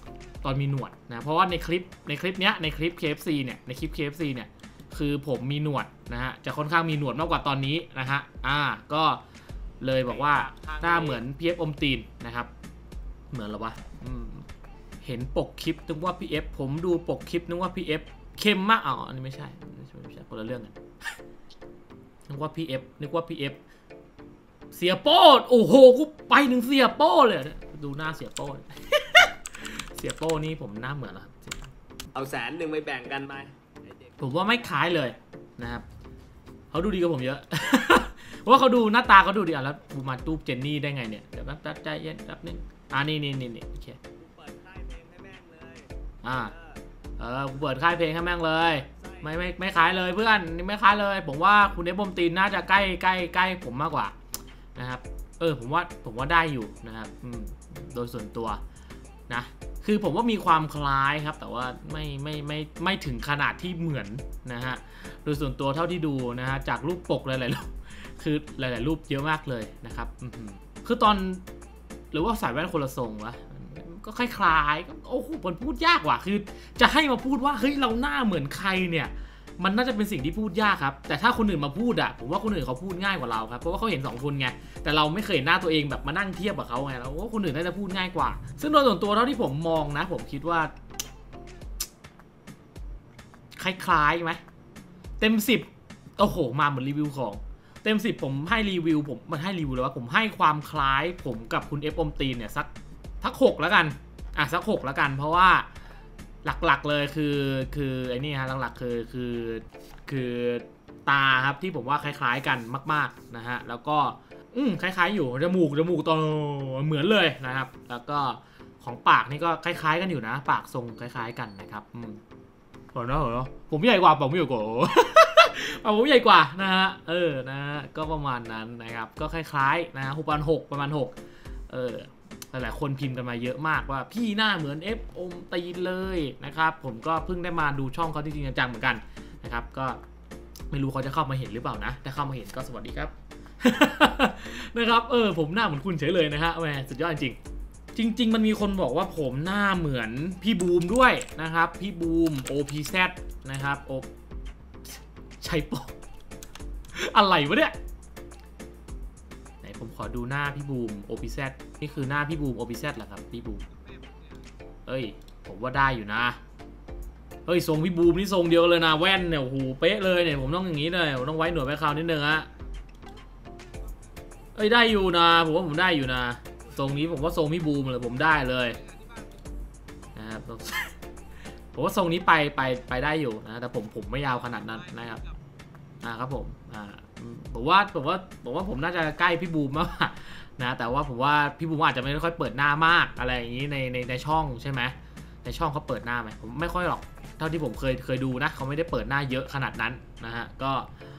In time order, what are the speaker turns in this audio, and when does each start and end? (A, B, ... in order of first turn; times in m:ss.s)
0:00.4-0:09.2 A
0:09.8-0:12.5 A
0:10.1-0:11.2 B
0:13.3-0:14.5 A
0:15.0-0:20.8 A
0:22.3-0:23.6 A
0:24.7-0:31.7 A
0:32.2-0:35.2 B
0:34.2-0:35.8 A
0:36.7-0:44.0 A
0:44.2-0:46.8 B
0:46.2-0:46.5 A
0:47.2-0:54.2 A
0:49.0-0:49.4 B
0:54.8-0:58.6 A
0:59.3-1:11.4 A
1:12.1-1:30.7 A
1:33.6-1:34.4 A
1:35.2-1:42.7 A
1:43.2-1:45.7 A
1:46.4-2:02.2 A
2:02.9-2:11.2 A
2:11.7-2:20.0 A
2:20.7-2:27.4 A
2:28.0-2:34.1 A
2:34.9-2:35.9 A
2:36.9-2:37.8 A
2:39.6-2:43.7 A
2:44.9-2:46.4 A
2:47.5-2:52.5 A
2:54.6-2:58.8 A
3:00.2-3:01.0 A
3:01.7-3:05.2 A
3:06.0-3:20.9 A